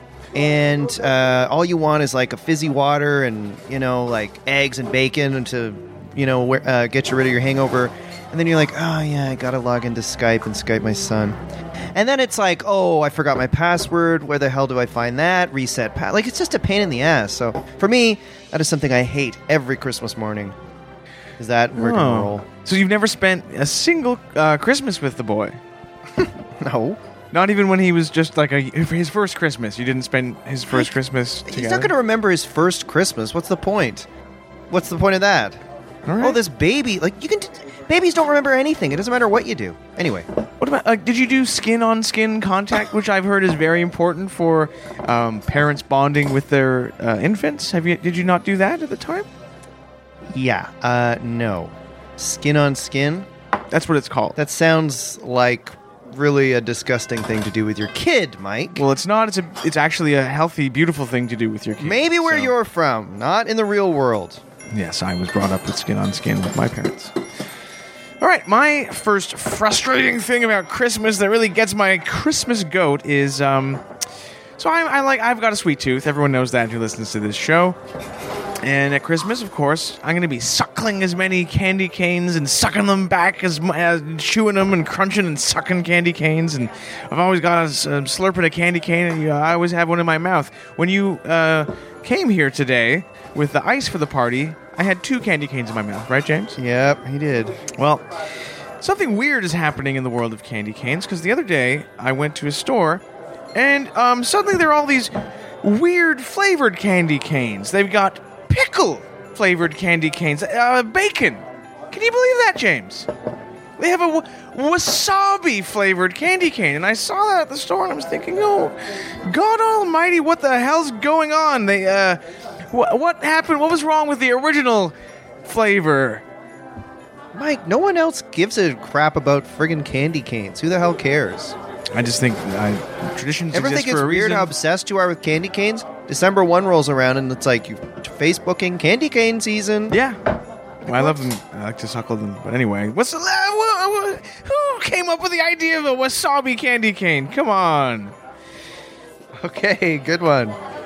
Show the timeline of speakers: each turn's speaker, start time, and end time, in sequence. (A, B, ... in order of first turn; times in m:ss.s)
0:00.4-0:11.4 A
0:12.0-0:20.6 A
0:21.4-0:22.5 A
0:21.8-0:25.6 B
0:26.2-0:27.0 A
0:27.3-0:31.9 B
0:31.5-0:34.1 A
0:34.7-0:35.6 A
0:36.1-0:36.4 B
0:36.2-0:40.3 A
0:40.6-0:49.3 B
0:50.3-0:53.3 A
0:53.7-0:54.4 B
0:54.4-0:58.8 A
0:58.8-1:02.5 B
1:01.8-1:04.4 A
1:04.7-1:07.1 B
1:08.2-1:13.8 B
1:14.6-1:17.8 B
1:18.6-1:36.6 B
1:36.6-1:37.6 A
1:37.7-1:38.1 B
1:38.8-1:43.0 B
1:43.6-1:45.1 B
1:45.6-1:53.1 B
1:53.8-1:58.8 B
1:59.3-2:06.2 B
2:07.3-2:11.6 A
2:11.9-2:14.5 B
2:13.5-2:20.0 A
2:19.9-2:20.2 B
2:20.8-2:28.2 B
2:20.9-2:21.2 A
2:29.4-2:30.6 A